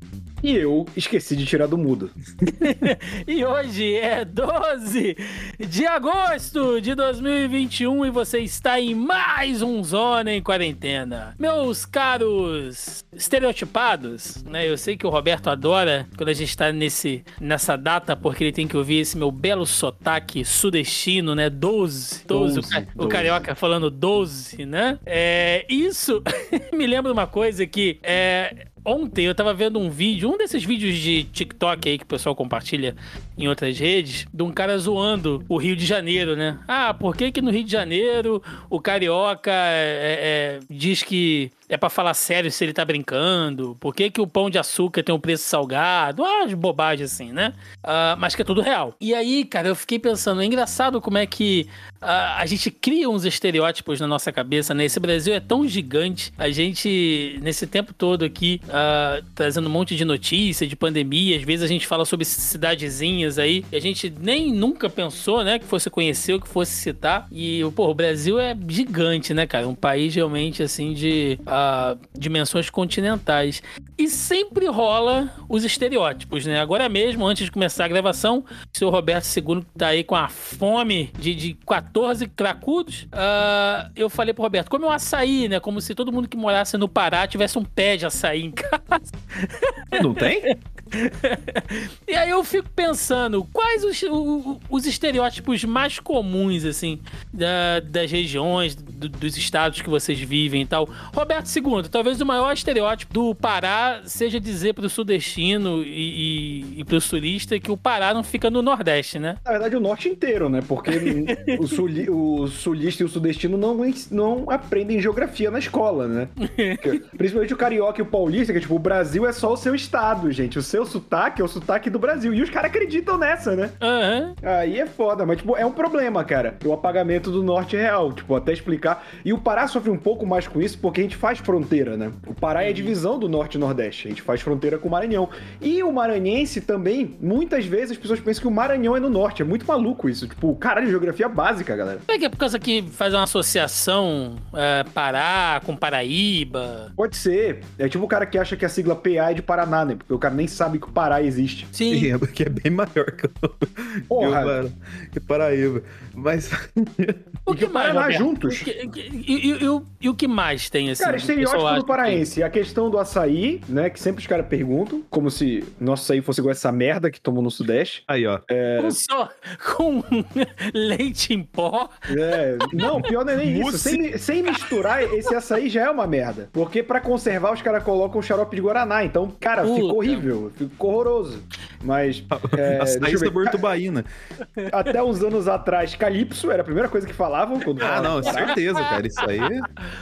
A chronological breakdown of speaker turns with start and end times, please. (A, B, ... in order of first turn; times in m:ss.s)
0:00.4-0:02.1 A
0:02.5-1:49.4 B
0:22.3-0:23.4 A
1:29.9-1:30.5 C
1:49.4-2:03.8 A
1:50.9-1:51.6 B
1:56.4-1:57.0 B
2:03.8-2:04.3 B
2:04.4-2:22.0 A
2:12.6-2:13.0 B
2:22.1-2:26.9 B
2:27.0-2:31.7 A
2:31.7-2:32.1 B
2:31.9-2:37.2 C
2:34.1-2:34.6 A
2:37.5-2:38.7 A
2:37.5-2:42.2 B
2:41.0-2:49.0 A
2:48.1-2:48.4 C
2:48.8-2:52.0 B
2:52.1-3:03.6 A
2:52.8-2:54.0 C
2:54.6-2:55.3 B
2:59.6-3:00.2 B
3:02.3-3:04.1 C
3:04.7-3:08.5 A
3:07.8-3:09.6 C
3:08.2-3:09.5 B